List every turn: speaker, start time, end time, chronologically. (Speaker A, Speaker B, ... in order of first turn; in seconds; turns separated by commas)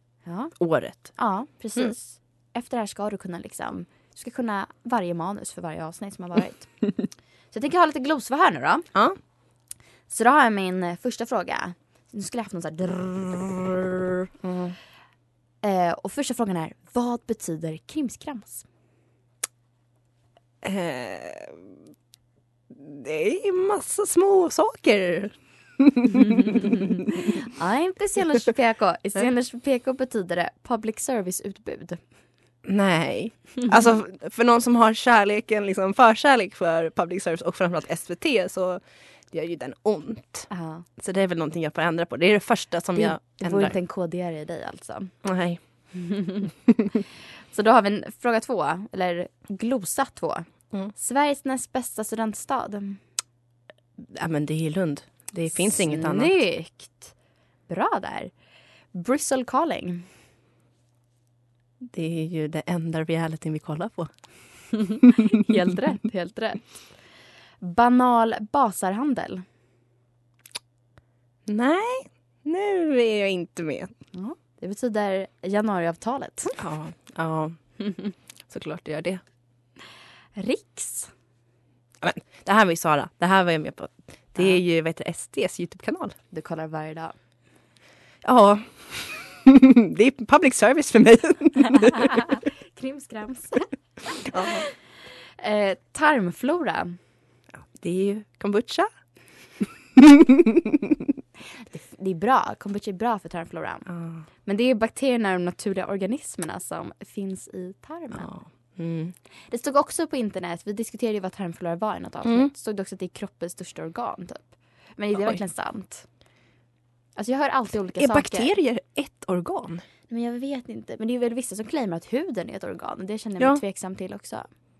Speaker A: 0.2-8.9, Speaker B: 0.6-1.2, Speaker A: 10.1-14.1, Speaker B: 14.4-14.7, Speaker A: 15.6-18.7, Speaker B: 20.6-21.7, Speaker B: 22.7-26.5, Speaker A: 27.5-32.0, Speaker B: 32.6-43.7, Speaker A: 40.5-40.9, Speaker A: 43.0-45.2, Speaker B: 45.2-45.6, Speaker A: 45.9-46.4, Speaker A: 47.5-53.0, Speaker B: 54.0-56.4, Speaker A: 55.5-57.1, Speaker A: 57.7-58.3, Speaker A: 58.9-60.1, Speaker B: 61.8-64.1, Speaker A: 65.3-67.0, Speaker A: 67.6-69.4, Speaker B: 71.5-73.9, Speaker A: 74.1-76.6, Speaker B: 76.6-77.8, Speaker B: 78.5-79.2, Speaker A: 80.3-81.1, Speaker B: 82.0-86.2, Speaker A: 86.3-87.2, Speaker B: 88.2-92.2, Speaker A: 92.7-93.7, Speaker B: 94.3-94.7, Speaker A: 95.4-97.0, Speaker B: 97.5-98.9, Speaker A: 101.7-108.3, Speaker B: 103.8-104.2, Speaker B: 108.1-109.1, Speaker A: 109.5-116.1, Speaker B: 112.2-112.5, Speaker B: 115.1-115.4, Speaker A: 117.2-118.5, Speaker B: 117.9-119.8, Speaker A: 120.1-124.5